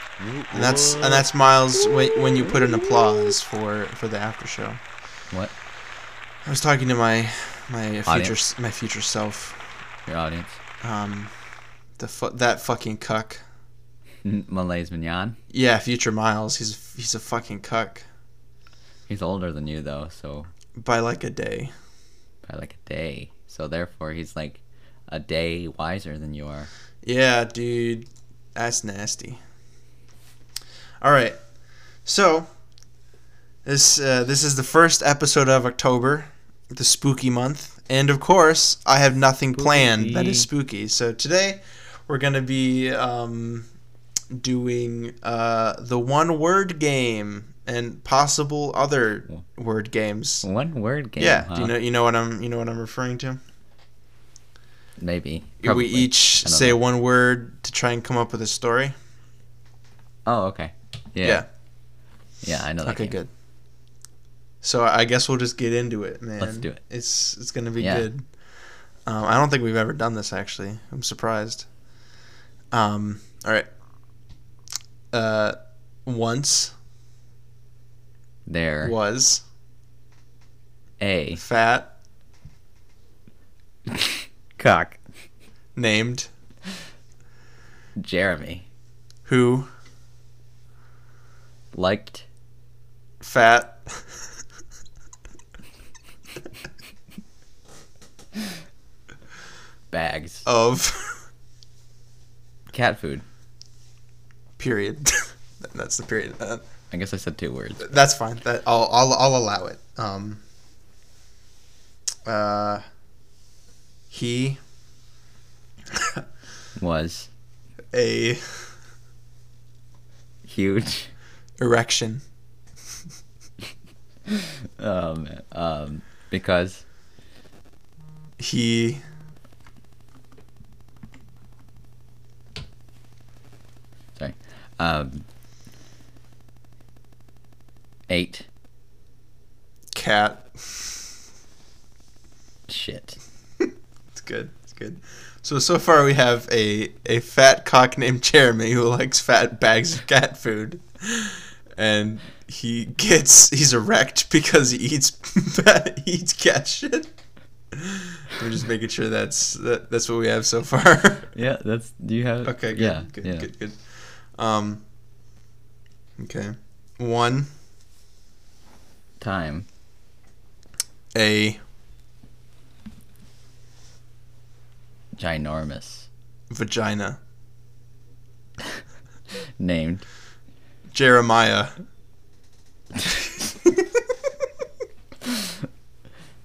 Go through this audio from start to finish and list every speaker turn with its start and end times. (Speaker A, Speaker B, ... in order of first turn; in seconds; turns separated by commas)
Speaker A: 0.2-1.2, Speaker B: 0.5-4.8, Speaker A: 2.2-3.0, Speaker B: 6.4-9.6, Speaker A: 8.1-8.3, Speaker A: 10.1-10.6, Speaker B: 10.8-11.3, Speaker B: 12.0-13.4, Speaker A: 14.2-15.4, Speaker B: 15.5-18.0, Speaker A: 19.1-20.5, Speaker B: 20.8-21.7, Speaker A: 22.4-26.7, Speaker B: 27.0-29.4, Speaker B: 31.0-31.4, Speaker B: 32.0-32.5, Speaker B: 33.6-43.7, Speaker A: 39.5-40.5, Speaker B: 44.3-50.5, Speaker A: 50.4-51.8, Speaker B: 51.2-53.4, Speaker A: 55.0-56.8, Speaker B: 55.6-58.9, Speaker A: 60.2-61.4, Speaker A: 62.4-63.1, Speaker B: 62.8-63.3, Speaker B: 64.6-68.2, Speaker A: 66.4-66.8, Speaker A: 67.8-68.1, Speaker B: 69.0-71.7, Speaker B: 72.7-73.7, Speaker B: 75.1-76.7, Speaker A: 78.5-78.9, Speaker B: 78.8-79.4, Speaker A: 81.0-81.4, Speaker B: 81.4-81.9, Speaker A: 83.9-85.0, Speaker B: 85.8-86.3, Speaker A: 88.0-88.7, Speaker B: 89.2-89.7, Speaker A: 91.7-92.2, Speaker B: 93.2-94.0, Speaker A: 99.9-100.5, Speaker B: 100.4-101.2, Speaker A: 102.7-103.2, Speaker B: 104.6-106.6, Speaker A: 106.9-107.9, Speaker B: 107.8-110.4, Speaker B: 112.2-112.8, Speaker B: 114.1-114.6, Speaker B: 115.9-116.2, Speaker A: 116.8-117.3, Speaker B: 117.9-118.7, Speaker A: 120.5-121.1, Speaker B: 121.6-122.2, Speaker A: 124.3-126.8, Speaker B: 128.4-129.0, Speaker A: 134.2-135.2, Speaker A: 138.1-138.4, Speaker B: 139.9-140.9, Speaker A: 142.7-143.2, Speaker B: 144.1-157.1, Speaker B: 157.7-161.3, Speaker A: 161.3-163.5, Speaker B: 162.4-164.8, Speaker B: 166.2-167.5, Speaker A: 169.2-169.7, Speaker B: 171.1-171.6, Speaker A: 175.2-176.1, Speaker B: 176.5-177.2, Speaker A: 179.6-180.0, Speaker B: 180.9-181.8, Speaker B: 183.5-183.9